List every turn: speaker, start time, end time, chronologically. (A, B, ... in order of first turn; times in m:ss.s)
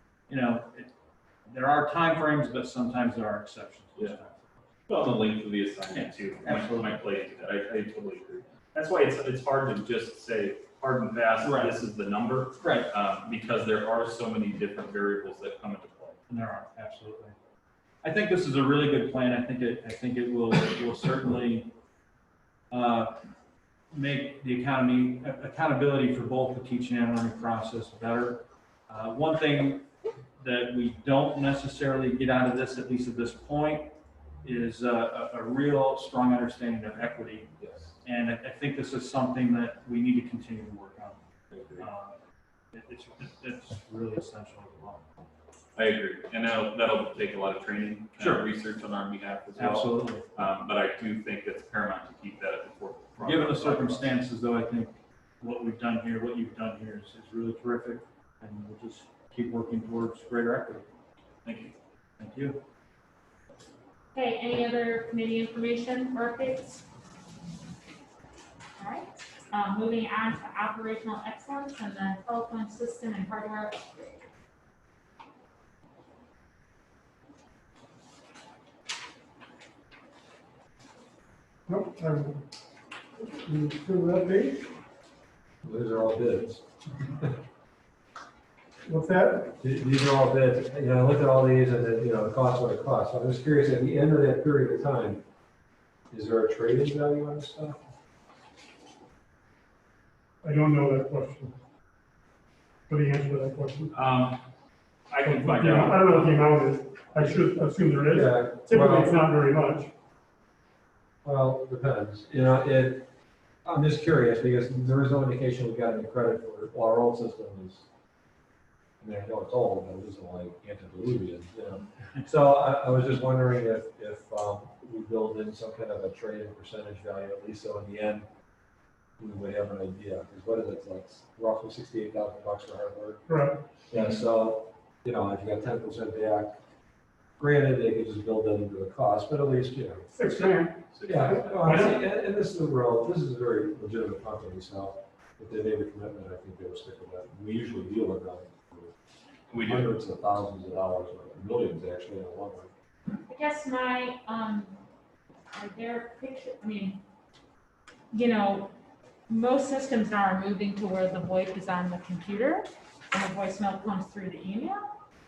0:00.3-0:00.9 A
0:01.5-0:04.4 A
0:04.9-0:16.2 B
0:05.9-0:07.0 A
0:11.4-0:11.8 A
0:12.6-0:12.9 A
0:16.3-0:17.3 A
0:18.0-0:21.7 A
0:22.7-0:23.2 A
0:23.9-0:29.9 A
0:30.4-0:41.2 A
0:37.6-0:37.8 B
0:41.7-0:42.2 A
0:42.7-0:45.0 A
0:45.7-0:54.1 B
0:48.2-0:48.5 A
0:49.6-0:50.2 A
0:53.2-1:00.9 A
1:01.4-1:01.7 B
1:02.2-1:02.6 A
1:04.1-1:06.8 C
1:08.8-1:14.2 C
1:21.7-1:22.4 D
1:23.2-1:24.7 D
1:25.6-1:26.6 E
1:28.8-1:29.5 D
1:29.6-1:35.2 E
1:36.1-1:37.8 E
1:40.4-1:41.6 D
1:42.9-1:43.9 D
1:43.9-1:44.4 B
1:45.1-1:46.4 B
1:45.2-1:49.9 D
1:48.1-1:49.2 E
1:51.2-1:53.1 E
1:53.6-1:57.8 E
1:59.0-2:08.2 E
2:09.2-2:13.3 E
2:13.3-2:13.6 D
2:13.9-2:16.6 E
2:17.4-2:20.2 E
2:20.1-2:22.0 D
2:20.9-2:21.7 B
2:21.0-2:28.9 E
2:29.5-2:29.9 B
2:29.6-2:32.7 E
2:33.3-2:34.8 C
2:35.5-2:37.0 C
2:38.1-2:38.7 C
2:39.3-2:44.9 C